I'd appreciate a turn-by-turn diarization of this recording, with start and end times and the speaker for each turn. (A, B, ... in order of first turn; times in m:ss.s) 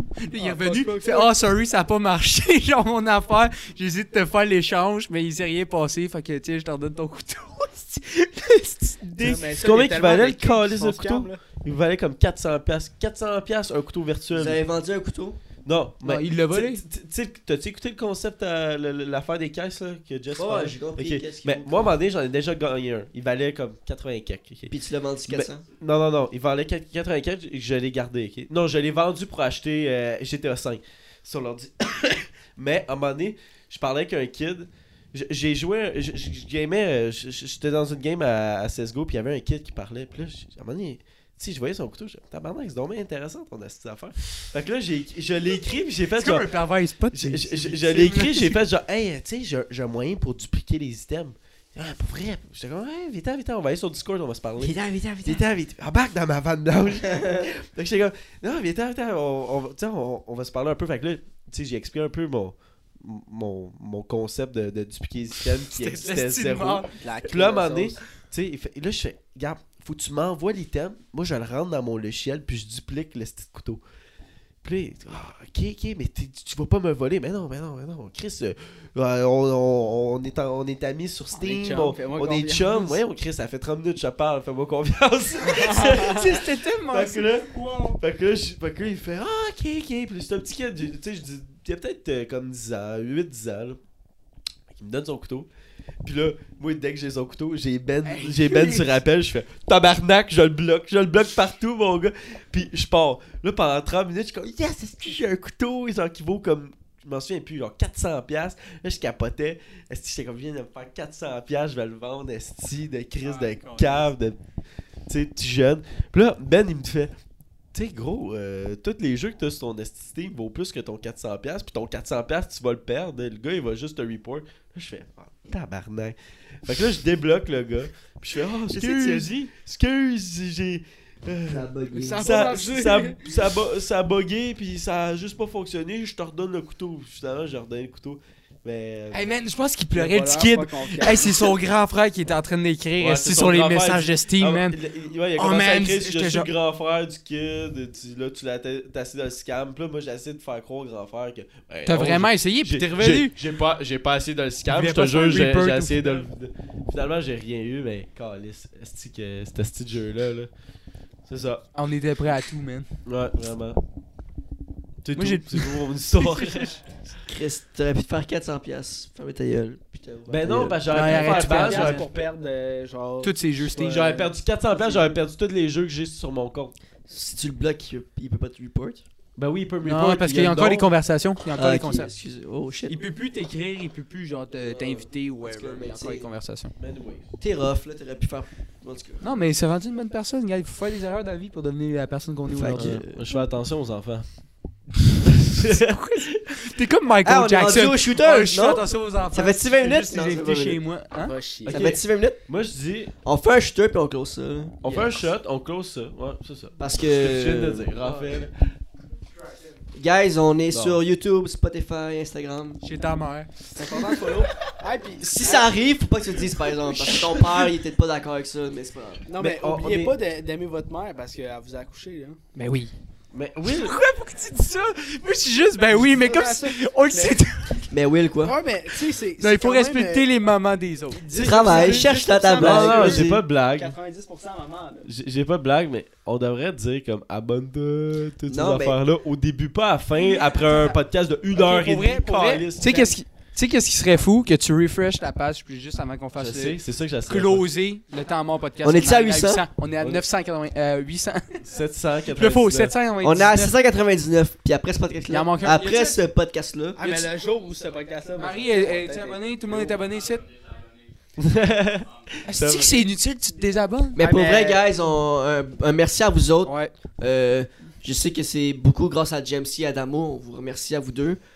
0:00.2-0:09.5 A
0:00.4-0:01.3 B
0:09.2-0:11.4 B
0:09.2-0:14.6 C
0:14.3-0:15.4 D
0:15.6-0:24.7 C
0:16.0-0:16.8 A
0:20.4-0:21.9 D
0:24.7-0:25.6 D
0:25.3-0:46.5 C
0:46.2-0:48.6 A
0:47.1-1:13.8 C
0:54.6-0:55.4 D
1:05.7-1:07.0 A
1:06.9-1:08.0 B
1:14.6-1:33.8 C
1:21.4-1:23.0 B
1:25.5-1:26.3 B
1:25.6-1:28.0 A
1:34.7-1:35.5 C
1:36.0-1:54.4 C
1:38.0-1:39.0 A
1:53.2-1:54.1 A
1:55.1-1:57.2 C
1:57.7-2:19.3 C
2:08.7-2:09.5 D
2:11.5-2:12.3 D
2:11.9-2:13.2 B
2:19.1-2:24.8 A
2:19.9-2:21.5 B
2:23.0-2:40.5 C
2:25.4-2:26.5 A
2:31.9-2:33.3 A
2:34.7-2:36.3 A
2:41.3-2:41.6 C
2:41.8-2:42.9 A
2:43.1-2:43.8 C
2:45.0-2:46.8 C
2:45.2-2:46.8 A
2:47.2-2:51.1 D
2:50.3-2:52.2 C
2:50.9-2:52.1 A
2:51.1-2:55.2 B
2:53.2-2:54.1 A
2:53.8-2:56.7 C
2:57.1-2:59.0 D
2:59.4-3:00.9 C
2:59.8-3:02.1 A
3:01.6-3:03.0 D
3:02.9-3:06.7 A
3:04.6-3:06.3 D
3:06.8-3:07.3 C
3:07.4-3:09.2 D
3:09.2-3:13.0 A
3:12.5-3:13.2 D
3:12.7-3:14.3 C
3:15.2-3:15.9 C
3:15.7-3:21.4 A
3:17.2-3:20.8 D
3:21.2-3:21.9 B
3:21.6-3:23.1 C
3:21.7-3:22.4 D
3:23.2-3:25.2 D
3:24.8-3:28.7 C
3:26.8-3:27.9 D
3:29.9-3:32.8 D
3:30.7-3:31.0 C
3:32.8-3:33.5 A
3:33.7-3:35.7 B
3:35.2-3:39.2 D
3:36.8-3:37.6 B
3:39.3-3:42.4 B
3:39.4-3:40.2 C
3:42.6-3:42.9 A
3:43.3-3:44.0 C
3:43.6-3:47.9 A
3:45.9-3:47.4 B
3:47.9-3:48.6 D
3:48.4-3:50.3 B
3:49.4-3:52.1 A
3:51.1-3:55.1 B
3:51.3-3:53.4 D
3:52.6-3:53.9 C
3:55.0-4:03.1 C
3:58.5-3:59.0 D
4:00.2-4:01.0 A
4:01.5-4:11.6 A
4:02.8-4:03.2 B
4:06.4-4:07.6 C
4:08.8-4:09.6 D
4:11.6-4:12.9 C
4:12.3-4:13.7 A
4:13.2-4:17.0 D
4:15.3-4:16.2 A
4:17.0-4:20.0 B
4:17.0-4:17.3 A
4:18.4-4:20.5 A
4:21.4-4:23.0 C
4:22.5-4:24.2 A
4:24.1-4:31.4 D
4:24.2-4:24.9 B
4:26.7-4:26.9 A